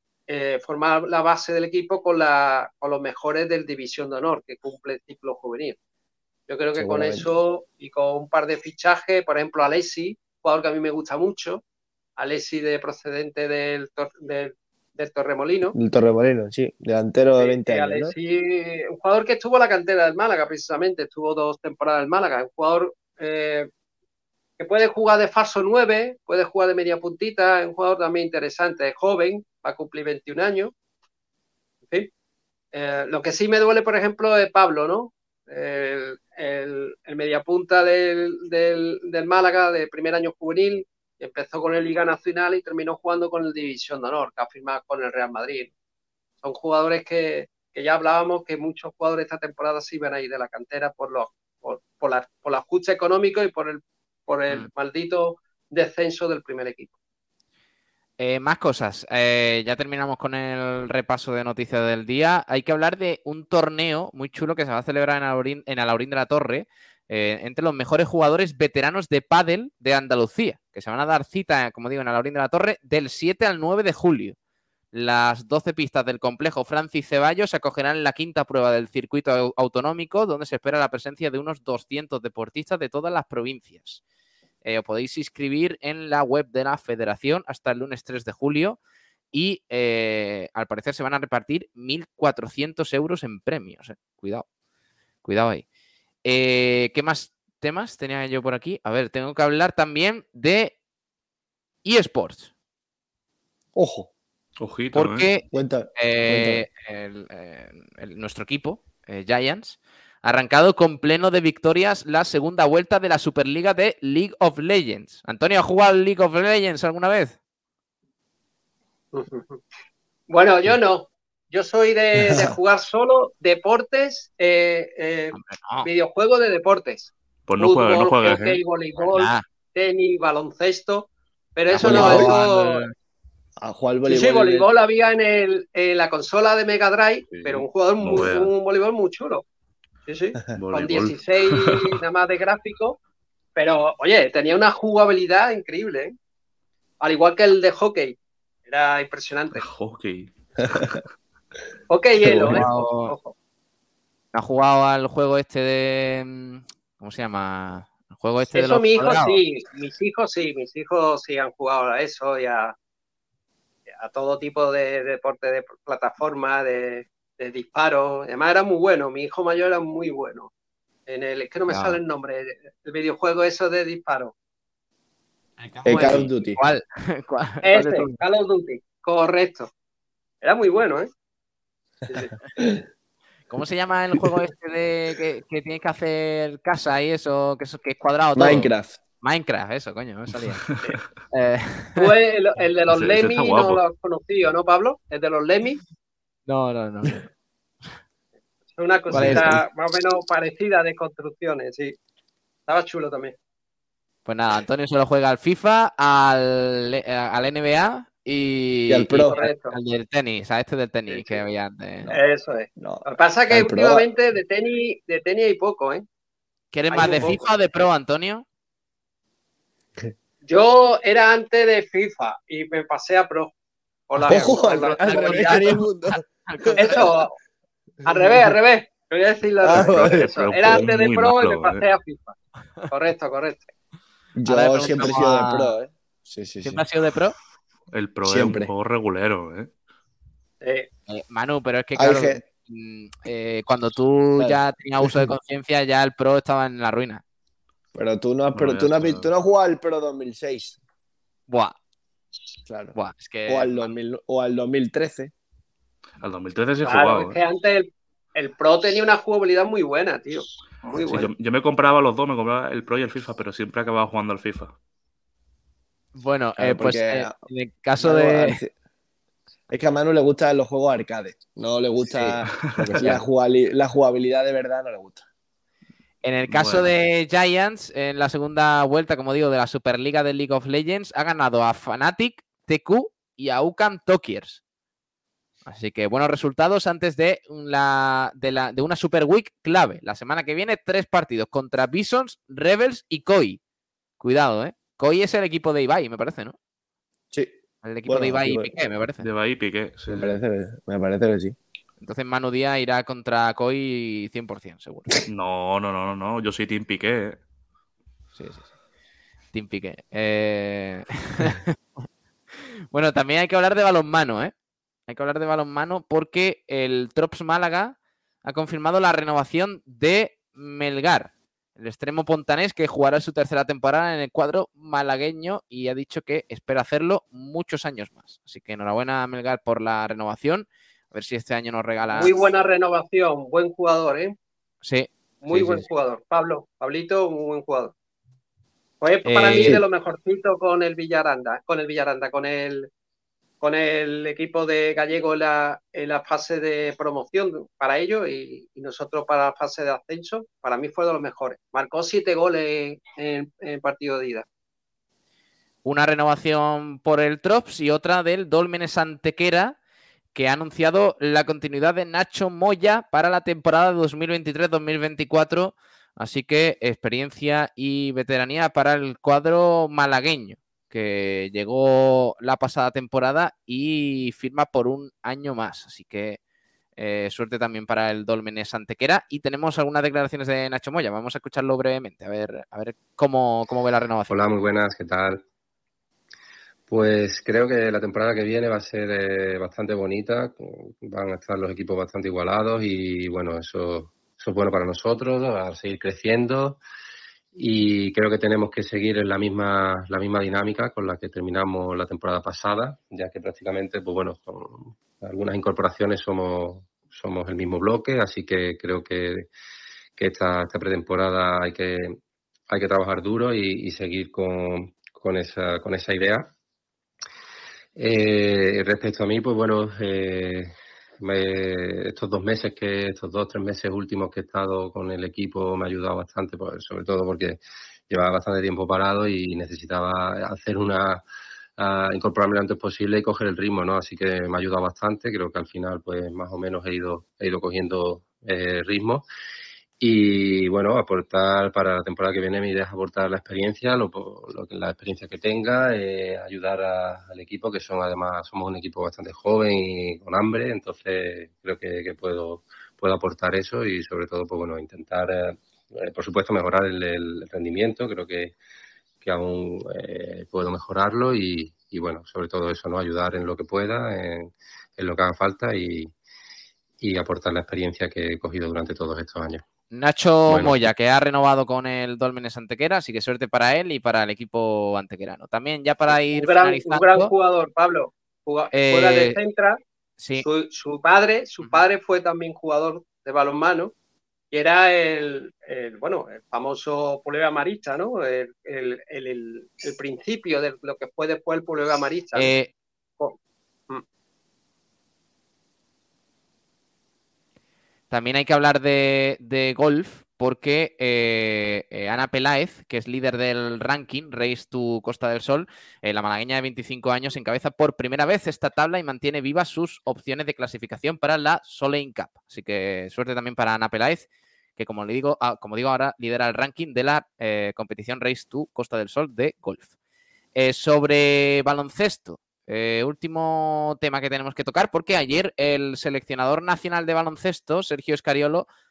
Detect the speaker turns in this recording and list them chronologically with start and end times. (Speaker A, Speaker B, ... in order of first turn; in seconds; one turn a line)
Speaker A: 0.3-5.8
Speaker A: 6.5-11.6
Speaker B: 6.8-7.3
Speaker A: 12.2-15.8
Speaker B: 15.8-18.1
Speaker A: 17.4-23.7
Speaker A: 24.6-30.7
Speaker A: 32.7-45.7
Speaker A: 46.4-56.9
Speaker C: 58.2-74.4
Speaker C: 74.9-84.0
Speaker C: 84.6-88.8
Speaker C: 89.3-94.5
Speaker C: 95.2-95.7
Speaker C: 96.2-100.8
Speaker C: 101.8-102.5
Speaker B: 103.8-104.1
Speaker D: 104.6-105.3
Speaker C: 104.9-117.4
Speaker B: 105.5-106.7
Speaker A: 119.1-119.6
Speaker A: 120.3-132.8
Speaker C: 125.3-125.9
Speaker D: 127.5-128.6
Speaker C: 129.1-129.4
Speaker C: 131.7-132.9
Speaker B: 131.8-132.4
Speaker B: 133.6-134.7
Speaker A: 134.1-139.4
Speaker D: 137.4-138.5
Speaker A: 140.1-143.0
Speaker D: 140.6-142.0
Speaker A: 143.6-146.1
Speaker A: 147.0-148.2
Speaker A: 148.7-149.6
Speaker D: 149.6-151.1
Speaker B: 150.7-151.0
Speaker A: 151.9-153.3
Speaker C: 152.3-153.2
Speaker C: 154.3-159.4
Speaker A: 158.5-162.8
Speaker A: 164.0-170.5
Speaker A: 171.1-174.3
Speaker C: 171.7-172.0
Speaker A: 175.6-176.3
Speaker B: 175.8-176.6
Speaker C: 176.0-178.2
Speaker A: 177.6-179.7
Speaker A: 180.4-181.1
Speaker A: 182.1-182.6
Speaker C: 183.5-188.7
Speaker B: 188.3-189.0
Speaker C: 189.2-190.6
Speaker C: 191.3-192.1
Speaker A: 192.0-195.8
Speaker D: 192.9-193.8
Speaker C: 196.5-197.2
Speaker A: 198.7-202.0
Speaker C: 199.1-199.5
Speaker B: 199.2-199.5
Speaker A: 202.7-203.3
Speaker C: 204.3-212.1
Speaker B: 208.9-209.4
Speaker A: 209.3-209.8
Speaker B: 211.1-211.4
Speaker A: 212.1-216.1
Speaker B: 212.8-214.1
Speaker C: 216.7-218.4
Speaker A: 216.9-217.4
Speaker A: 220.4-223.5
Speaker A: 224.1-225.8
Speaker B: 224.2-227.1
Speaker C: 225.1-227.1
Speaker A: 226.7-227.3
Speaker A: 228.1-232.3
Speaker B: 229.6-230.8
Speaker D: 229.7-231.8
Speaker A: 232.9-233.6
Speaker B: 234.4-236.8
Speaker C: 234.5-235.8
Speaker C: 236.6-237.4
Speaker D: 237.9-239.7
Speaker B: 238.2-238.7
Speaker A: 240.6-240.9
Speaker C: 241.1-247.2
Speaker B: 241.9-242.4
Speaker B: 244.4-245.3
Speaker B: 247.9-250.8
Speaker D: 248.6-249.3
Speaker C: 251.5-251.8
Speaker B: 252.7-252.9
Speaker C: 252.9-253.9
Speaker B: 253.5-255.3
Speaker D: 256.2-257.4
Speaker A: 256.8-261.3
Speaker D: 261.0-264.8
Speaker C: 266.1-268.6
Speaker B: 266.6-267.4
Speaker B: 268.0-268.7
Speaker B: 269.7-275.2
Speaker C: 272.1-272.4
Speaker D: 272.7-273.2
Speaker C: 276.2-284.6
Speaker D: 276.5-276.9
Speaker C: 285.7-293.6
Speaker C: 294.2-296.6
Speaker C: 297.8-299.2
Speaker B: 298.1-298.7
Speaker D: 299.2-300.3
Speaker B: 300.1-301.6
Speaker C: 302.0-305.1
Speaker D: 305.3-307.4
Speaker C: 308.4-308.7
Speaker C: 309.5-314.5
Speaker C: 315.1-332.4
Speaker A: 332.1-334.4
Speaker C: 334.8-335.9
Speaker A: 335.4-337.9
Speaker A: 339.0-342.9
Speaker C: 339.2-339.8
Speaker A: 343.6-354.4
Speaker C: 355.8-359.8
Speaker C: 360.4-376.4
Speaker C: 377.0-384.3
Speaker E: 384.3-385.4
Speaker E: 386.9-396.8
Speaker E: 397.6-409.5
Speaker E: 410.2-412.2
Speaker E: 412.7-416.5
Speaker E: 418.0-431.2
Speaker E: 431.8-439.3
Speaker E: 440.0-458.6
Speaker E: 459.2-466.1
Speaker E: 467.0-469.6
Speaker C: 469.9-477.3
Speaker E: 470.5-470.8
Speaker A: 476.3-479.8
Speaker C: 478.7-479.4
Speaker C: 480.2-480.4
Speaker A: 480.4-483.9
Speaker A: 484.5-492.5
Speaker C: 492.4-492.7
Speaker C: 498.1-519.9
Speaker C: 520.5-528.7